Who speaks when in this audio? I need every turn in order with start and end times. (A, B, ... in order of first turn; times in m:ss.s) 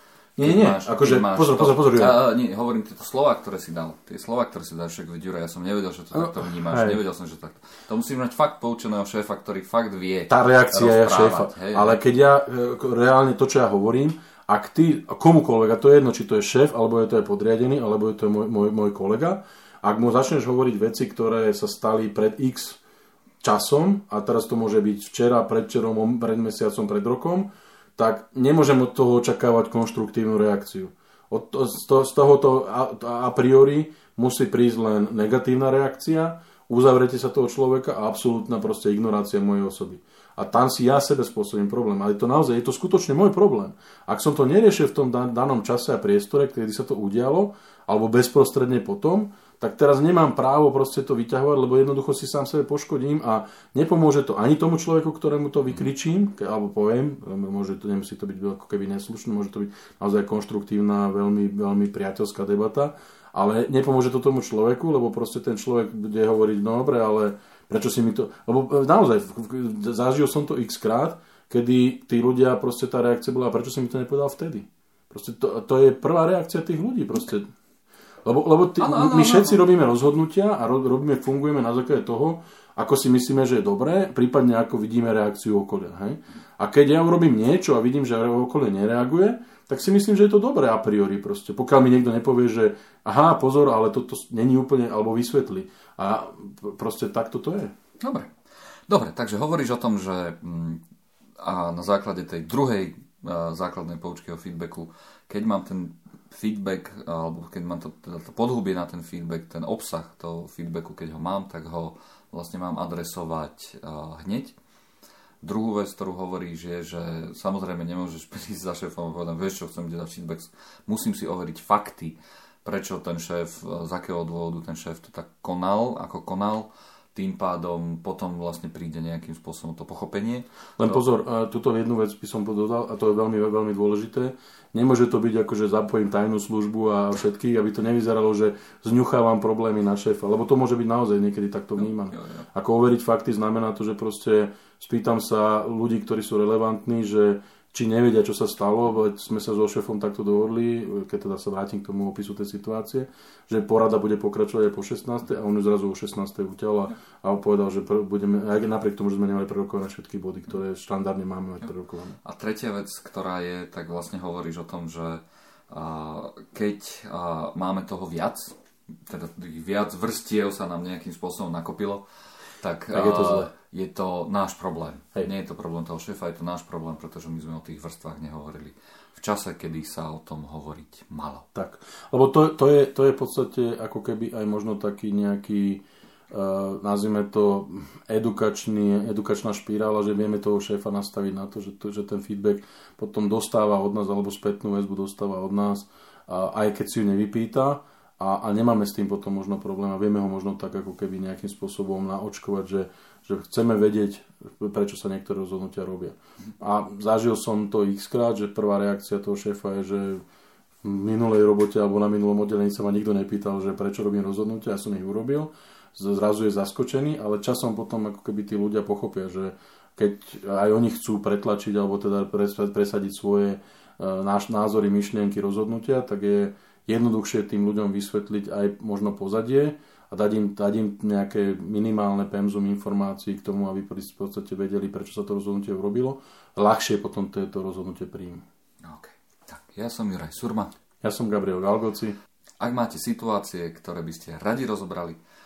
0:00.4-0:02.2 A
0:00.4-0:12.0 B
0:06.1-0:07.0 A
0:10.3-0:22.8 A
0:23.4-1:17.4 A
1:18.2-1:37.7 A
1:18.8-1:19.6 B
1:38.0-1:38.3 B
1:38.9-1:40.8 B
1:41.4-1:54.6 B
1:55.4-2:11.0 B
2:10.8-2:42.2 A
2:21.8-2:22.5 B
2:42.2-2:52.0 B
2:52.6-3:01.4 B
2:52.9-2:53.5 A
3:01.5-3:30.2 A
3:30.8-3:58.4 A
3:58.8-4:00.7 B
4:01.0-4:02.2 A
4:02.6-4:05.2 B